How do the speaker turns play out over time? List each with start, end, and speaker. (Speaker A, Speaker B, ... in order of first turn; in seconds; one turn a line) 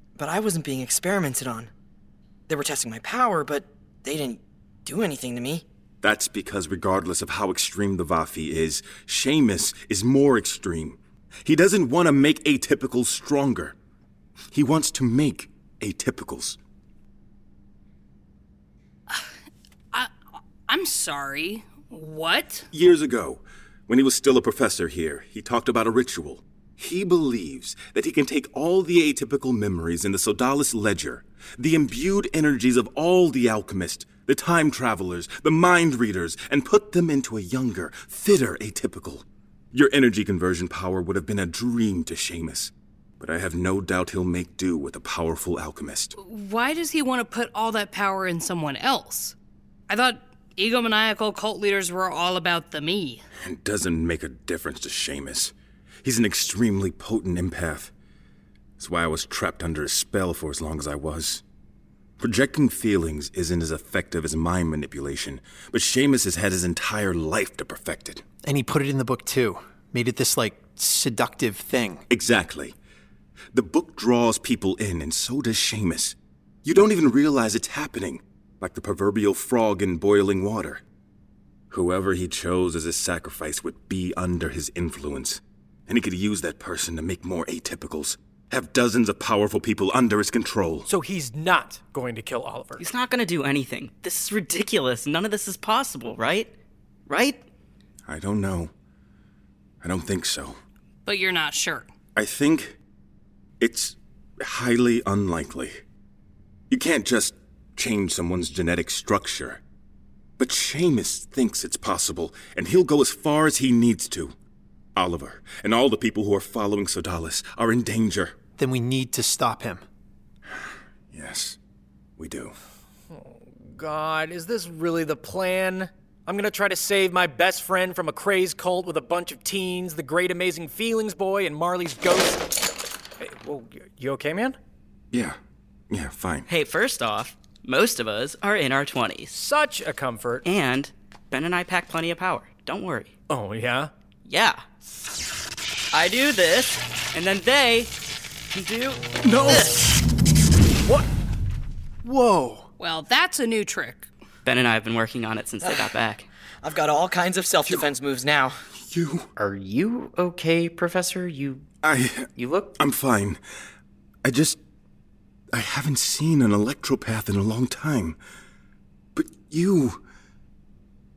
Speaker A: 0.2-1.7
Speaker A: 2.5-5.6
Speaker B: 6.0-13.7
Speaker B: 14.5-16.6
Speaker C: 20.7-22.7
Speaker B: 22.7-46.1
Speaker C: 46.1-49.3
Speaker C: 49.9-53.2
Speaker B: 53.4-55.5
Speaker B: 56.0-57.9
Speaker B: 58.8-61.4
Speaker B: 62.2-68.2
Speaker D: 68.4-72.0
Speaker B: 72.1-72.7
Speaker B: 73.5-80.8
Speaker B: 81.7-90.9
Speaker E: 90.9-92.8
Speaker F: 92.8-96.5
Speaker F: 97.1-97.4
Speaker B: 98.1-98.7
Speaker B: 99.8-100.6
Speaker C: 101.0-101.9
Speaker B: 102.2-102.7
Speaker B: 103.6-105.8
Speaker B: 106.7-109.6
Speaker B: 110.4-114.3
Speaker B: 115.0-118.3
Speaker D: 118.6-119.8
Speaker B: 121.1-121.6
Speaker B: 122.2-122.5
Speaker E: 123.1-132.6
Speaker E: 133.2-134.6
Speaker B: 135.1-135.4
Speaker B: 135.9-136.4
Speaker F: 136.5-139.3
Speaker E: 139.3-140.4
Speaker F: 140.4-143.1
Speaker E: 143.3-143.9
Speaker F: 144.2-144.6
Speaker F: 145.9-147.9
Speaker F: 148.5-149.0
Speaker B: 149.2-149.7
Speaker D: 152.0-152.7
Speaker C: 152.8-154.1
Speaker F: 154.4-156.3
Speaker A: 155.6-155.9
Speaker A: 156.6-158.6
Speaker B: 158.8-159.3
Speaker G: 159.3-161.7
Speaker B: 161.8-163.4
Speaker G: 162.3-162.7
Speaker B: 164.2-164.6
Speaker B: 165.5-168.2
Speaker B: 169.1-170.0